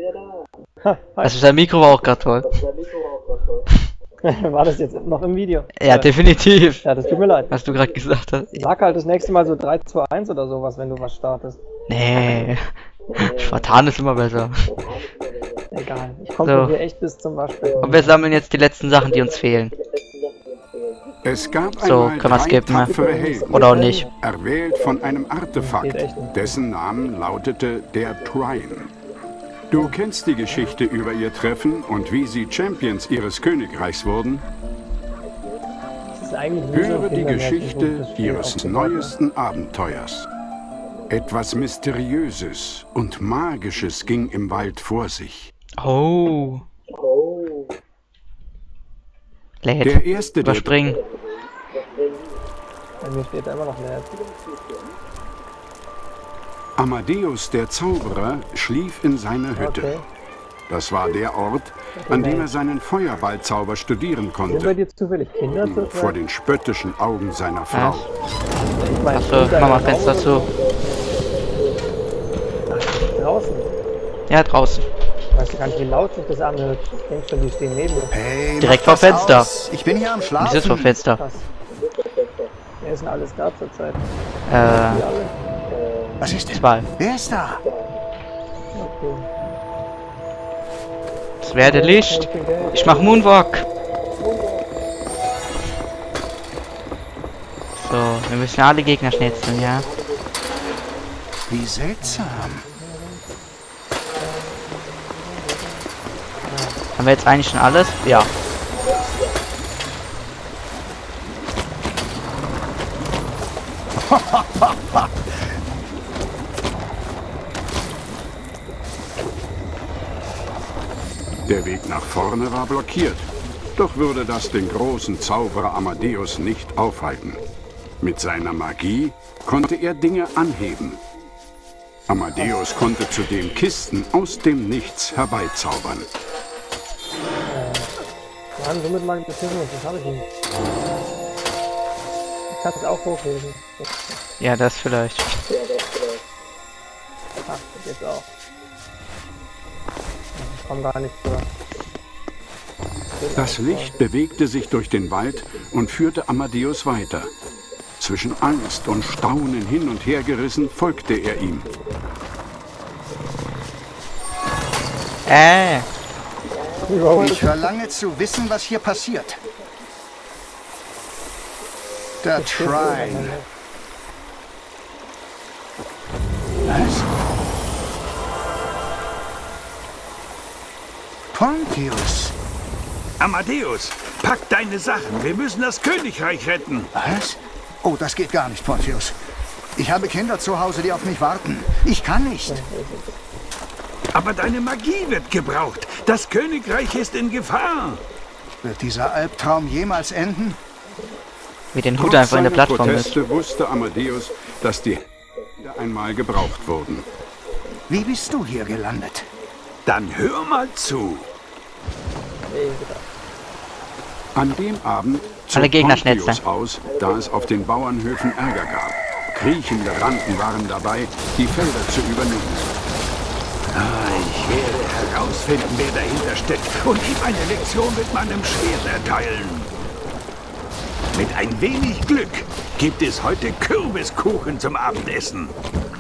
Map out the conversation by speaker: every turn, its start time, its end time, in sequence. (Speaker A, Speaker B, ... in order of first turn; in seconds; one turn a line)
Speaker A: 0.8-1.4
Speaker B: 1.2-2.6
Speaker A: 4.2-6.1
Speaker B: 5.8-6.8
Speaker A: 6.8-7.5
Speaker B: 7.5-8.5
Speaker A: 8.5-11.6
Speaker B: 11.9-14.6
Speaker A: 15.7-18.2
Speaker B: 16.4-16.8
Speaker B: 17.8-19.7
Speaker C: 21.2-28.9
Speaker B: 21.8-23.0
Speaker A: 22.7-24.1
Speaker B: 23.5-24.1
Speaker A: 25.6-26.6
Speaker C: 29.7-34.5
Speaker A: 36.2-39.1
Speaker C: 36.7-40.3
Speaker C: 41.1-45.5
Speaker B: 45.8-46.6
Speaker B: 49.6-51.0
Speaker C: 49.8-51.0
Speaker A: 53.0-54.2
Speaker C: 56.8-59.9
Speaker A: 59.6-60.0
Speaker C: 60.7-64.8
Speaker A: 62.0-62.5
Speaker A: 64.5-66.2
Speaker C: 65.6-68.1
Speaker B: 67.7-68.0
Speaker A: 68.8-70.5
Speaker B: 69.1-70.5
Speaker A: 72.7-73.8
Speaker B: 74.3-74.9
Speaker A: 75.3-78.1
Speaker D: 78.1-81.0
Speaker B: 78.6-79.5
Speaker B: 80.4-81.2
Speaker A: 81.2-81.5
Speaker A: 82.8-84.0
Speaker B: 84.5-85.1
Speaker A: 84.6-85.3
Speaker D: 86.2-87.6
Speaker B: 86.5-86.9
Speaker A: 88.8-89.3
Speaker B: 91.4-93.7
Speaker A: 91.6-93.1
Speaker B: 97.8-99.9
Speaker D: 101.5-102.6
Speaker A: 102.0-103.2
Speaker A: 104.2-105.9
Speaker A: 106.4-106.8
Speaker B: 107.0-108.3
Speaker D: 114.1-115.4
Speaker C: 121.5-127.4
Speaker C: 128.0-131.0
Speaker C: 132.1-136.1
Speaker A: 137.5-137.9
Speaker A: 138.6-140.3
Speaker A: 142.5-144.2
Speaker B: 144.4-145.4
Speaker A: 147.5-148.3
Speaker A: 150.3-151.5
Speaker A: 153.2-154.0
Speaker C: 153.4-157.3
Speaker C: 158.0-161.8
Speaker B: 165.3-165.9
Speaker A: 166.9-167.7
Speaker D: 167.2-169.4
Speaker D: 172.2-173.4
Speaker A: 172.4-173.5
Speaker D: 176.7-177.1
Speaker D: 181.3-182.3
Speaker E: 183.2-186.9
Speaker D: 186.9-189.2
Speaker D: 189.8-192.7
Speaker A: 192.5-193.2
Speaker E: 194.1-198.0
Speaker D: 198.6-200.6
Speaker B: 201.7-203.2
Speaker C: 202.0-205.0
Speaker C: 205.6-207.1
Speaker D: 207.9-209.3
Speaker E: 209.9-211.3
Speaker A: 212.5-213.0
Speaker C: 214.3-222.7
Speaker B: 215.6-216.4
Speaker E: 223.7-229.7
Speaker E: 231.1-235.5